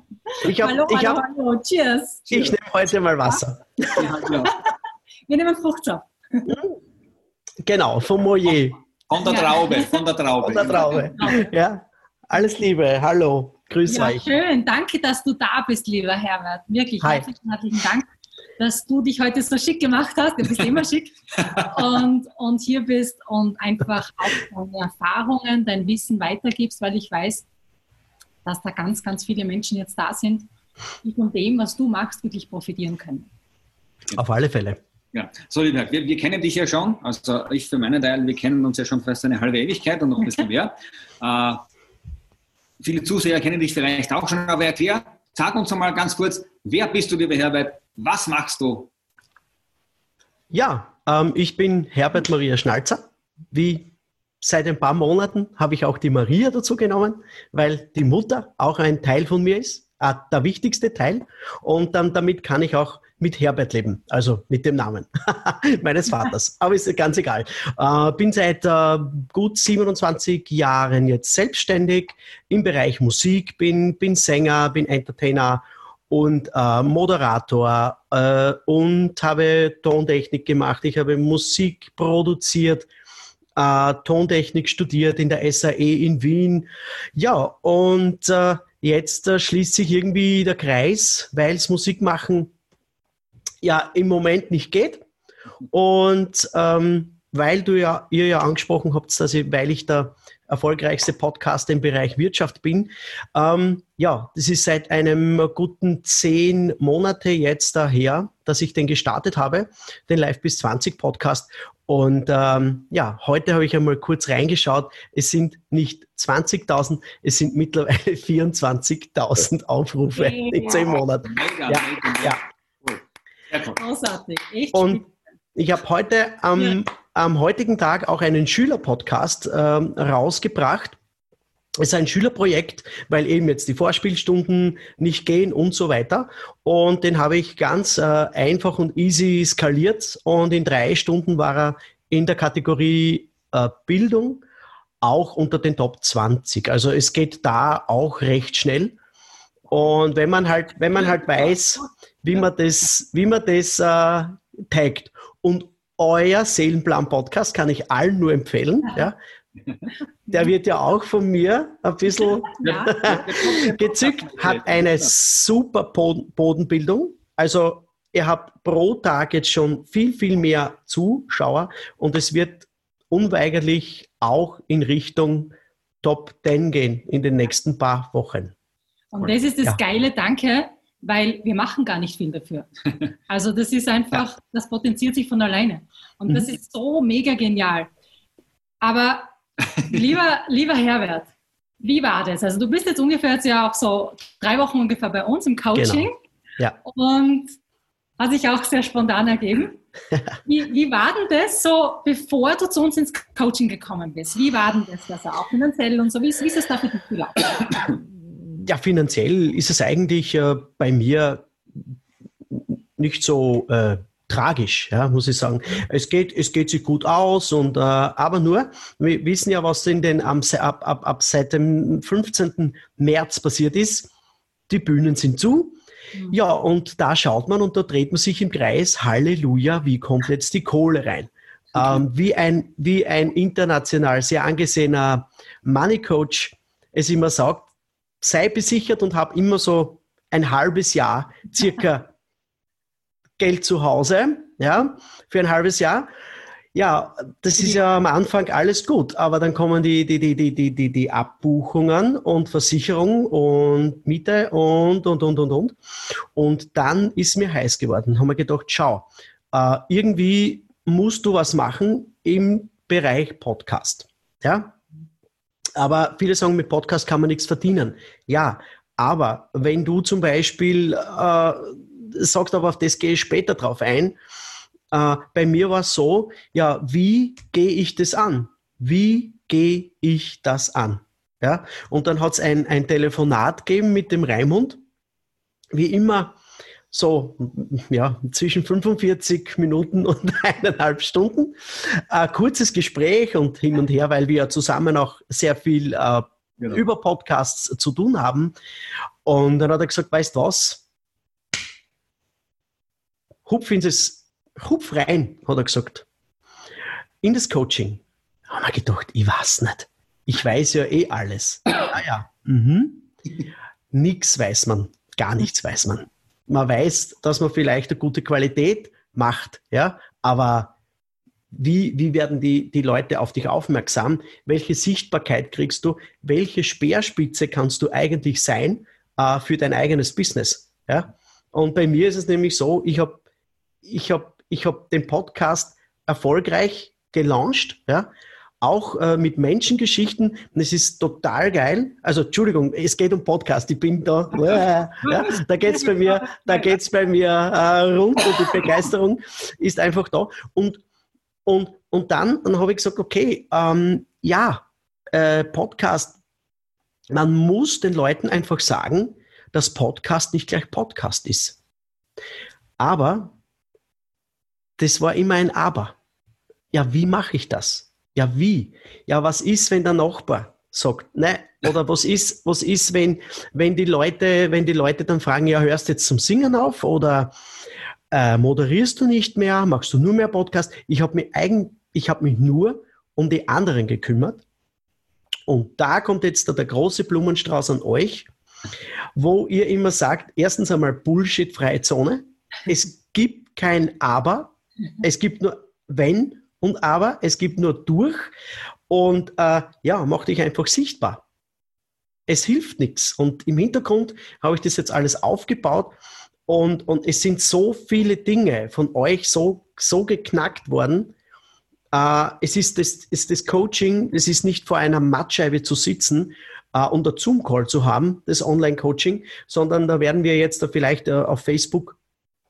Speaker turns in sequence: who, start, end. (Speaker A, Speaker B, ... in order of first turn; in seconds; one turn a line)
Speaker A: 0.3-2.3
Speaker B: 0.4-1.2
Speaker B: 2.3-4.0
Speaker C: 3.9-4.5
Speaker A: 4.4-4.7
Speaker A: 5.3-6.5
Speaker B: 6.5-6.8
Speaker B: 7.6-8.8
Speaker C: 9.1-11.1
Speaker A: 9.2-10.0
Speaker B: 10.4-14.3
Speaker A: 10.6-11.5
Speaker A: 13.9-18.1
Speaker B: 17.0-17.3
Speaker A: 18.6-27.5
Speaker A: 28.4-30.5
Speaker A: 31.0-33.3
Speaker B: 34.1-34.8
Speaker C: 35.1-41.6
Speaker C: 42.8-48.9
Speaker B: 50.5-53.9
Speaker B: 54.4-82.9
Speaker B: 83.5-92.5
Speaker B: 93.6-95.0
Speaker B: 95.7-122.4
Speaker A: 120.2-120.9
Speaker C: 121.2-123.8
Speaker A: 123.8-125.1
Speaker B: 124.7-125.0
Speaker B: 125.5-131.0
Speaker B: 131.8-144.4
Speaker B: 145.0-148.9
Speaker B: 149.7-159.2
Speaker B: 160.3-178.5
Speaker A: 162.4-163.8
Speaker C: 162.6-165.1
Speaker A: 179.1-182.7
Speaker B: 179.2-179.8
Speaker A: 183.3-187.9
Speaker A: 188.8-189.3
Speaker A: 189.9-191.3
Speaker A: 191.8-196.2
Speaker B: 195.7-196.1
Speaker A: 196.8-197.6
Speaker A: 198.2-199.8
Speaker A: 200.4-207.5
Speaker B: 208.4-211.5
Speaker B: 212.5-224.1
Speaker B: 224.7-225.8
Speaker B: 226.3-237.7
Speaker B: 238.2-242.1
Speaker B: 243.4-246.1
Speaker B: 246.7-255.8
Speaker B: 256.3-264.8
Speaker B: 265.8-274.2
Speaker B: 274.9-284.8
Speaker B: 285.7-286.4
Speaker B: 286.9-298.5
Speaker B: 299.2-300.8
Speaker B: 303.4-306.1
Speaker B: 307.2-313.1
Speaker B: 313.9-320.7
Speaker B: 321.5-333.2
Speaker B: 333.8-338.1
Speaker B: 338.6-350.8
Speaker A: 345.1-346.7
Speaker B: 351.4-356.2
Speaker B: 357.1-361.6
Speaker B: 362.8-363.3
Speaker B: 364.8-365.9
Speaker B: 366.7-377.3
Speaker B: 378.1-384.4
Speaker B: 385.5-388.3
Speaker B: 389.1-398.3
Speaker B: 398.9-401.2
Speaker B: 402.3-405.9
Speaker B: 406.5-411.1
Speaker B: 411.9-422.0